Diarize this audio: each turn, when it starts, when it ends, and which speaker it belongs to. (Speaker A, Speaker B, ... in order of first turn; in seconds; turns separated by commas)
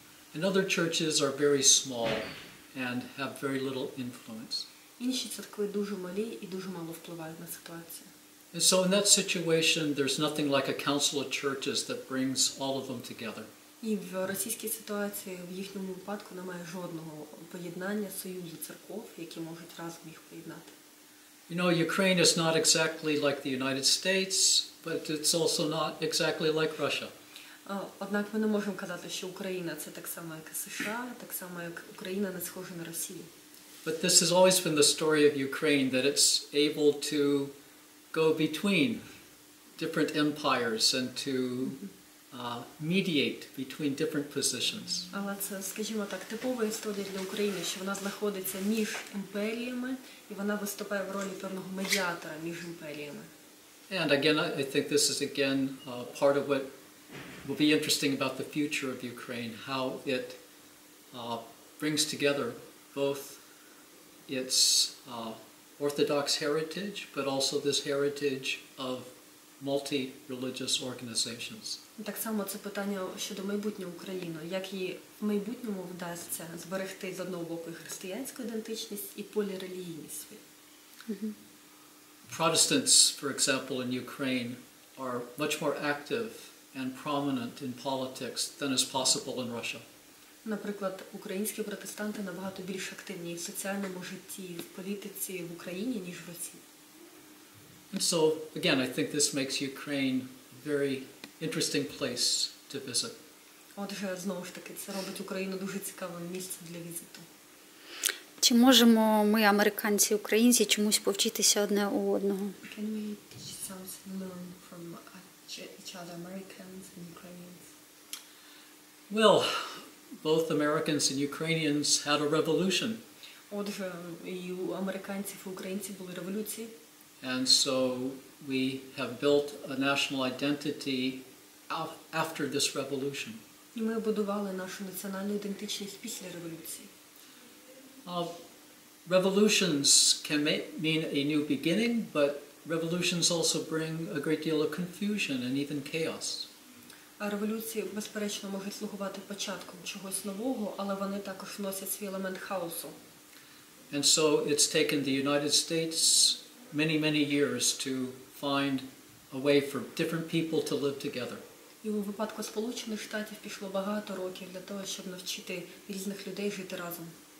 Speaker A: 0.3-4.7, Speaker B: 5.0-8.1, Speaker A: 8.5-13.5, Speaker B: 13.8-20.7, Speaker A: 21.5-27.1, Speaker B: 27.6-33.3, Speaker A: 33.8-37.5, Speaker A: 38.1-39.0, Speaker A: 39.8-45.1, Speaker B: 45.1-53.3, Speaker A: 53.9-56.7, Speaker A: 57.4-60.4, Speaker A: 61.1-63.4, Speaker A: 64.3-71.8, Speaker B: 72.0-80.4, Speaker C: 81.1-81.3, Speaker A: 82.3-89.8, Speaker B: 90.4-96.6, Speaker A: 97.9-103.1, Speaker B: 103.8-107.2, Speaker C: 108.4-112.5, Speaker B: 112.6-117.7, Speaker A: 119.1-123.0, Speaker B: 123.5-126.7, Speaker A: 127.2-133.4, Speaker B: 133.7-136.9, Speaker A: 138.0-138.3, Speaker A: 139.1-146.5, Speaker B: 147.2-152.9, Speaker A: 153.9-161.4, Speaker B: 161.8-167.1